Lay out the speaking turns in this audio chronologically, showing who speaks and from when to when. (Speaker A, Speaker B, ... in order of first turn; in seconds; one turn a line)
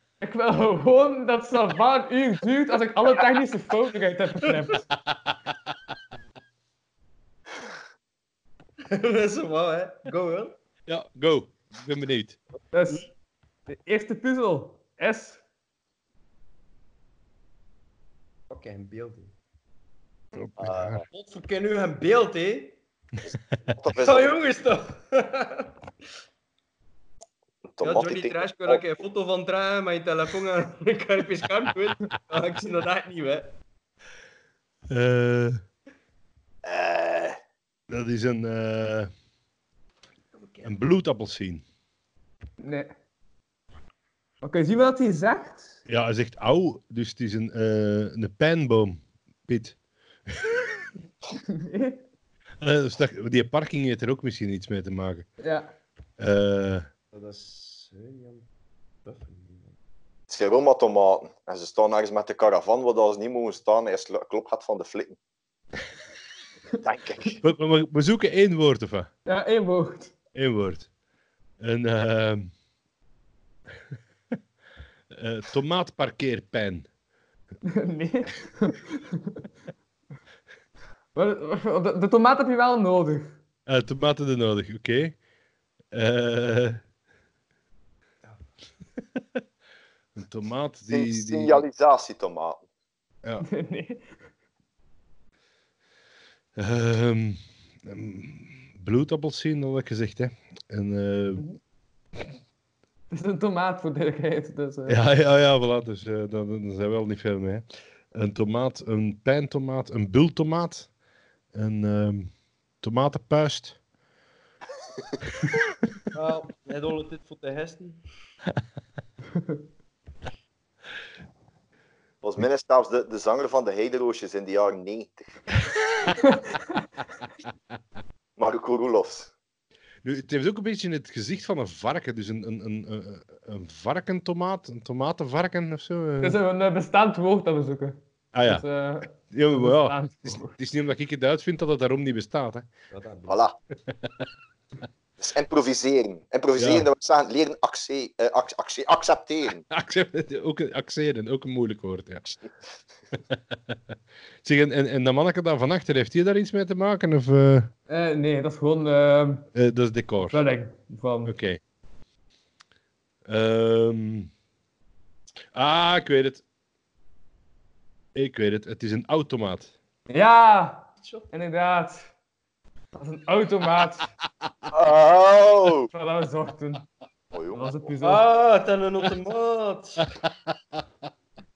Speaker A: 0.2-4.8
Speaker B: 8.8-10.6
Speaker C: 10.9-12.4
Speaker A: 12.7-13.0
Speaker A: 13.7-15.4
Speaker B: 18.5-19.3
Speaker C: 20.4-21.0
Speaker D: 20.6-21.0
Speaker B: 21.1-22.8
Speaker D: 23.3-24.4
Speaker B: 23.9-25.7
Speaker D: 27.6-28.8
Speaker B: 27.8-33.5
Speaker C: 34.9-35.6
Speaker D: 36.6-37.4
Speaker C: 37.9-39.1
Speaker B: 40.4-40.7
Speaker C: 40.6-41.6
Speaker A: 42.6-42.9
Speaker A: 44.4-45.7
Speaker C: 45.9-49.8
Speaker C: 50.3-50.6
Speaker A: 51.5-52.0
Speaker C: 52.6-55.3
Speaker A: 55.4-55.7
Speaker C: 56.2-56.9
Speaker B: 57.1-58.5
Speaker B: 59.0-59.7
Speaker D: 60.3-65.2
Speaker D: 66.8-67.4
Speaker C: 67.4-69.1
Speaker A: 69.2-70.1
Speaker C: 70.3-70.9
Speaker C: 71.6-72.5
Speaker C: 75.2-76.9
Speaker A: 77.6-79.4
Speaker A: 81.1-83.4
Speaker C: 83.7-85.2
Speaker C: 85.9-86.8
Speaker C: 90.2-91.6
Speaker D: 90.9-92.6
Speaker A: 93.4-94.2
Speaker C: 96.6-101.4
Speaker A: 103.1-105.0
Speaker C: 104.9-110.9
Speaker C: 111.5-113.8
Speaker B: 116.1-118.0
Speaker D: 122.2-125.3
Speaker A: 126.2-126.5
Speaker D: 128.4-129.3
Speaker C: 130.0-136.4
Speaker A: 136.2-140.5
Speaker C: 138.3-138.6
Speaker C: 139.3-142.7
Speaker B: 142.9-143.4
Speaker D: 143.3-143.6
Speaker D: 145.2-149.6
Speaker C: 146.6-146.9
Speaker C: 149.7-152.3
Speaker D: 152.2-152.5
Speaker C: 154.4-157.7
Speaker A: 157.9-159.4
Speaker C: 159.5-160.5
Speaker A: 160.3-161.3
Speaker C: 161.2-161.6
Speaker C: 163.2-164.3
Speaker C: 165.5-166.4
Speaker C: 168.1-169.7
Speaker A: 170.1-172.1
Speaker B: 171.0-171.3
Speaker A: 172.9-174.1
Speaker D: 174.7-175.9
Speaker A: 175.9-176.8
Speaker D: 177.3-177.9
Speaker A: 177.5-178.2
Speaker B: 178.0-180.0